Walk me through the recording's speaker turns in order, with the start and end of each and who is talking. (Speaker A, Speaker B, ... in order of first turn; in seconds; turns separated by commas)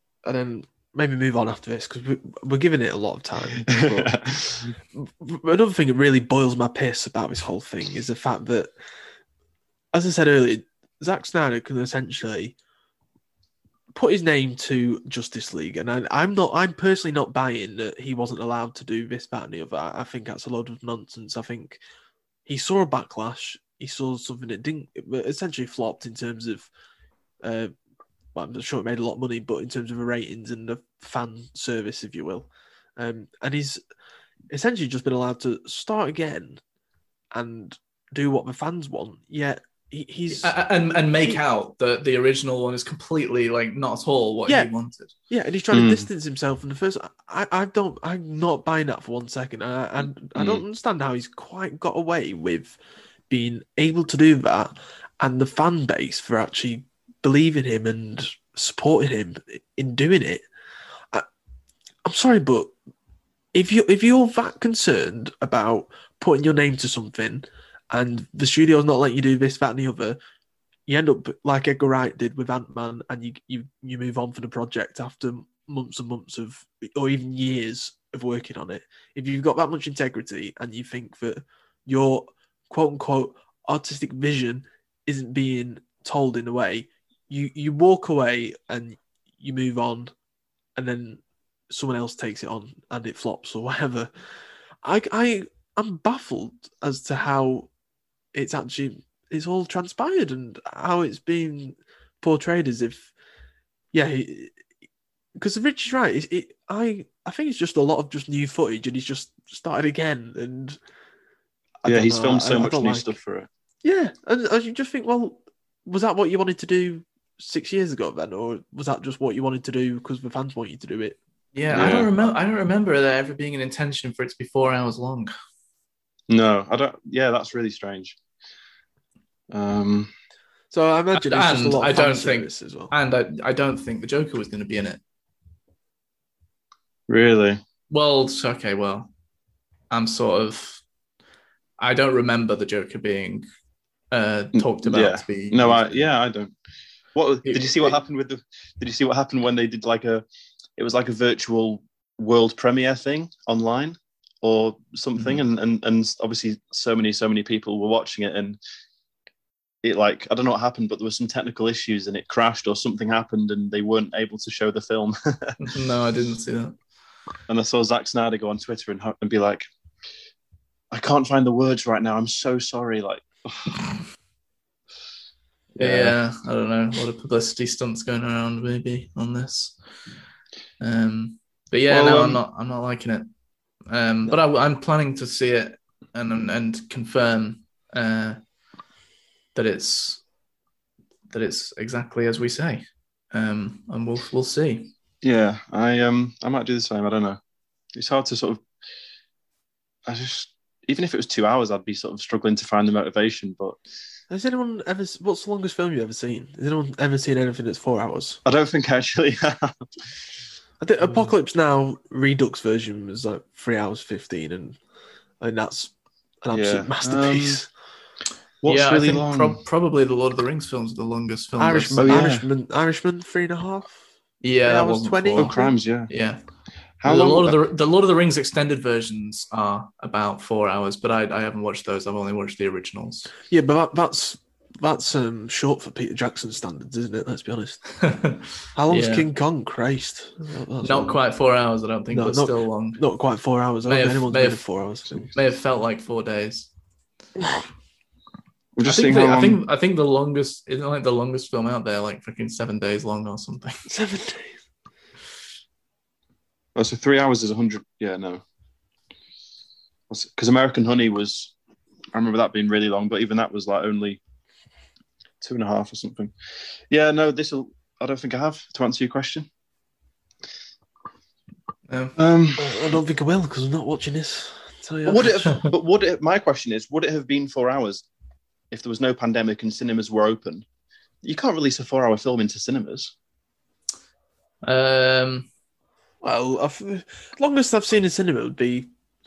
Speaker A: 0.2-4.2, Speaker B: 3.7-4.7, Speaker A: 4.9-8.7, Speaker A: 9.9-12.5, Speaker A: 13.9-21.8, Speaker A: 22.5-26.7, Speaker A: 27.4-27.7, Speaker A: 28.3-33.8, Speaker A: 34.5-36.6, Speaker A: 37.3-40.5, Speaker C: 40.3-45.1, Speaker A: 45.3-52.8, Speaker B: 45.7-46.1, Speaker B: 50.4-50.6, Speaker A: 53.3-60.4, Speaker A: 62.0-62.7, Speaker A: 63.5-70.2, Speaker A: 70.9-90.1, Speaker A: 90.8-94.1, Speaker A: 94.8-97.7, Speaker A: 98.3-103.1, Speaker A: 103.9-104.6, Speaker A: 105.3-110.8, Speaker A: 111.8-113.1, Speaker B: 111.8-113.5, Speaker A: 113.8-121.2, Speaker C: 121.5-125.3, Speaker B: 121.7-122.1, Speaker B: 126.3-128.2, Speaker B: 129.5-130.1, Speaker A: 130.7-132.9, Speaker C: 131.1-135.0, Speaker B: 137.1-137.6, Speaker C: 137.9-139.1, Speaker C: 139.9-140.8, Speaker C: 141.8-143.4, Speaker C: 144.1-146.1, Speaker B: 144.6-146.5, Speaker B: 147.2-150.2, Speaker C: 147.4-148.0, Speaker B: 150.8-158.6, Speaker C: 155.2-155.4, Speaker B: 159.8-165.6, Speaker C: 165.6-166.8, Speaker B: 167.5-169.6, Speaker B: 170.9-174.0, Speaker C: 175.8-179.8, Speaker B: 175.8-176.2, Speaker C: 180.8-183.3, Speaker B: 181.9-182.4, Speaker C: 183.9-188.4, Speaker C: 189.5-190.2, Speaker C: 191.3-194.9, Speaker B: 195.2-197.4, Speaker B: 197.9-198.6, Speaker B: 200.1-203.8, Speaker A: 204.3-208.4, Speaker B: 208.4-209.8, Speaker A: 210.8-214.8, Speaker A: 215.4-215.9, Speaker A: 216.4-217.7, Speaker B: 216.5-217.6, Speaker B: 218.6-219.6, Speaker C: 218.7-222.2, Speaker A: 221.6-224.0, Speaker B: 222.0-222.4, Speaker C: 224.4-226.4, Speaker A: 224.6-225.7, Speaker B: 225.4-226.1, Speaker B: 227.0-227.6, Speaker C: 227.0-233.3, Speaker A: 233.5-237.8, Speaker C: 238.0-239.3, Speaker A: 238.7-241.2, Speaker C: 240.8-243.0, Speaker A: 242.1-245.3, Speaker C: 243.8-244.6, Speaker C: 245.3-246.7, Speaker B: 248.8-249.6, Speaker C: 248.8-253.8, Speaker A: 253.8-254.6, Speaker B: 256.8-258.4, Speaker B: 260.1-261.5, Speaker B: 262.1-264.2, Speaker B: 265.4-266.3, Speaker B: 266.9-269.5, Speaker C: 271.9-272.1, Speaker B: 272.1-272.8, Speaker A: 272.6-275.4, Speaker B: 275.1-278.0, Speaker B: 278.7-280.6, Speaker B: 281.2-283.1, Speaker C: 284.6-285.5, Speaker A: 286.2-288.9